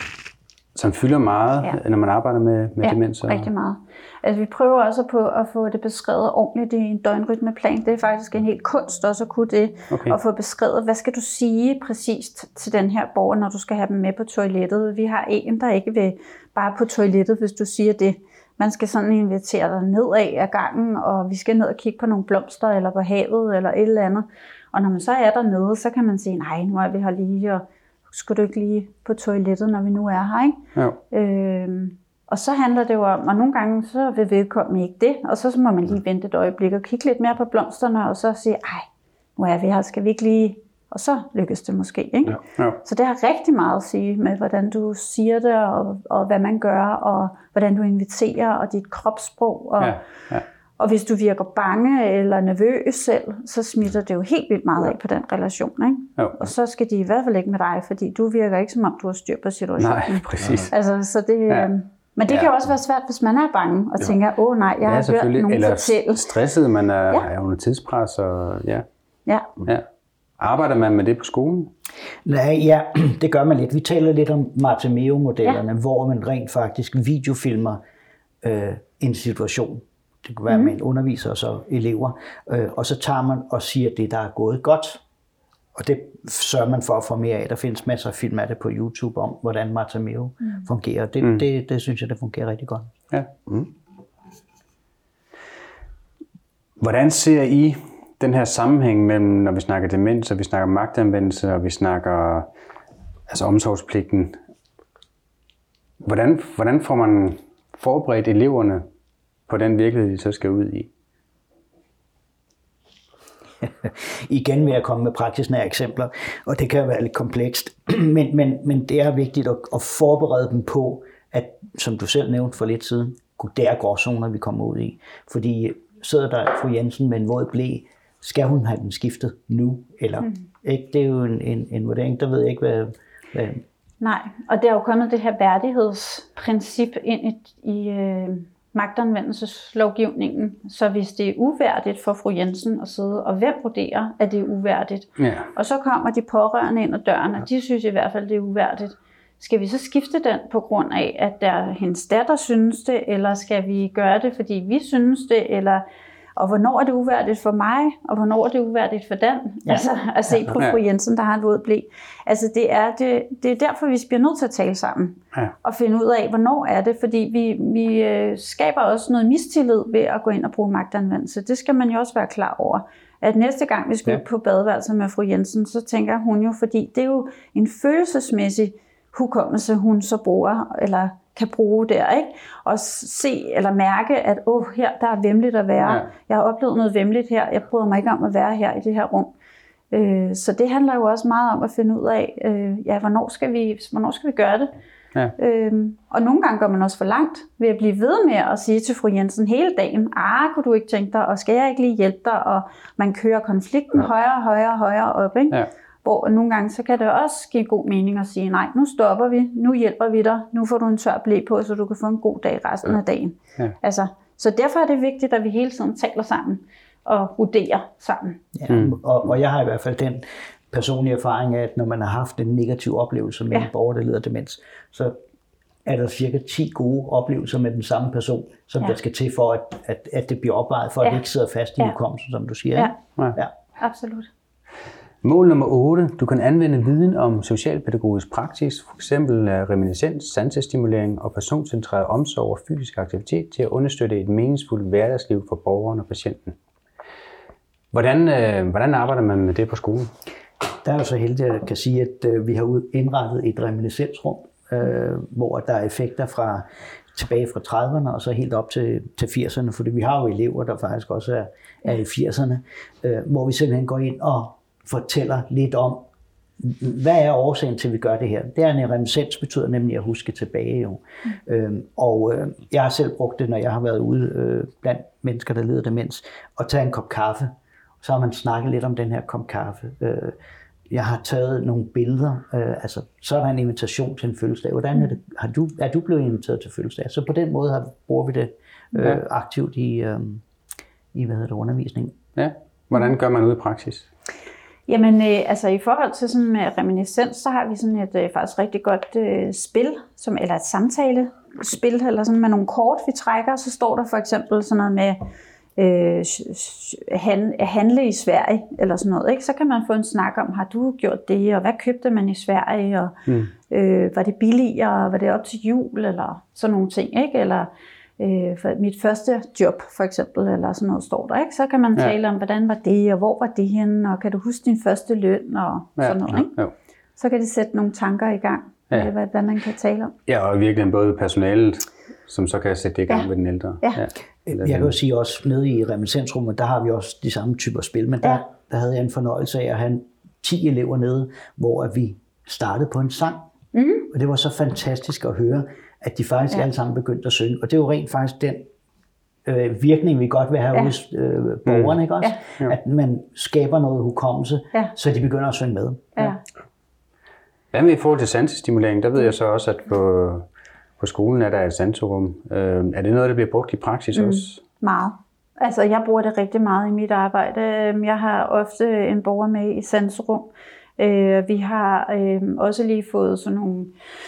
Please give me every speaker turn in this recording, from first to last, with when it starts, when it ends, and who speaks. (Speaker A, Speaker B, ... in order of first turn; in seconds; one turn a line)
Speaker A: 0.7-3.5
Speaker B: 2.8-50.0
Speaker A: 9.9-10.2
Speaker A: 49.8-50.4
Speaker B: 50.8-66.3
Speaker A: 56.2-56.5
Speaker A: 59.8-60.7
Speaker A: 64.8-68.8
Speaker B: 69.2-69.5
Speaker A: 70.4-71.7
Speaker C: 72.2-77.8
Speaker C: 78.4-85.0
Speaker B: 80.5-80.8
Speaker C: 85.8-92.9
Speaker A: 91.2-91.5
Speaker A: 96.8-102.5
Speaker A: 103.3-104.4
Speaker A: 106.0-108.8
Speaker A: 109.5-110.9
Speaker C: 113.6-133.6
Speaker B: 134.0-155.8
Speaker A: 145.2-145.5
Speaker B: 156.3-189.3
Speaker A: 185.8-186.1
Speaker B: 189.9-194.7
Speaker B: 195.4-218.4
Speaker C: 218.5-225.2
Speaker A: 218.7-219.0
Speaker C: 225.8-233.5
Speaker B: 233.8-234.3
Speaker A: 235.2-246.5
Speaker A: 247.9-250.1
Speaker C: 250.8-266.0
Speaker C: 266.6-277.5
Speaker C: 278.0-280.4
Speaker C: 280.9-290.4
Speaker C: 291.1-292.2
Speaker A: 292.4-294.1
Speaker B: 294.9-305.2
Speaker B: 305.8-326.5
Speaker A: 326.0-326.7
Speaker B: 327.2-330.1
Speaker A: 330.3-334.9
Speaker C: 334.5-343.4
Speaker B: 343.7-344.1
Speaker C: 344.1-348.6
Speaker C: 349.4-356.2
Speaker A: 351.6-352.0
Speaker A: 357.7-360.4
Speaker A: 361.0-364.6
Speaker B: 364.1-373.9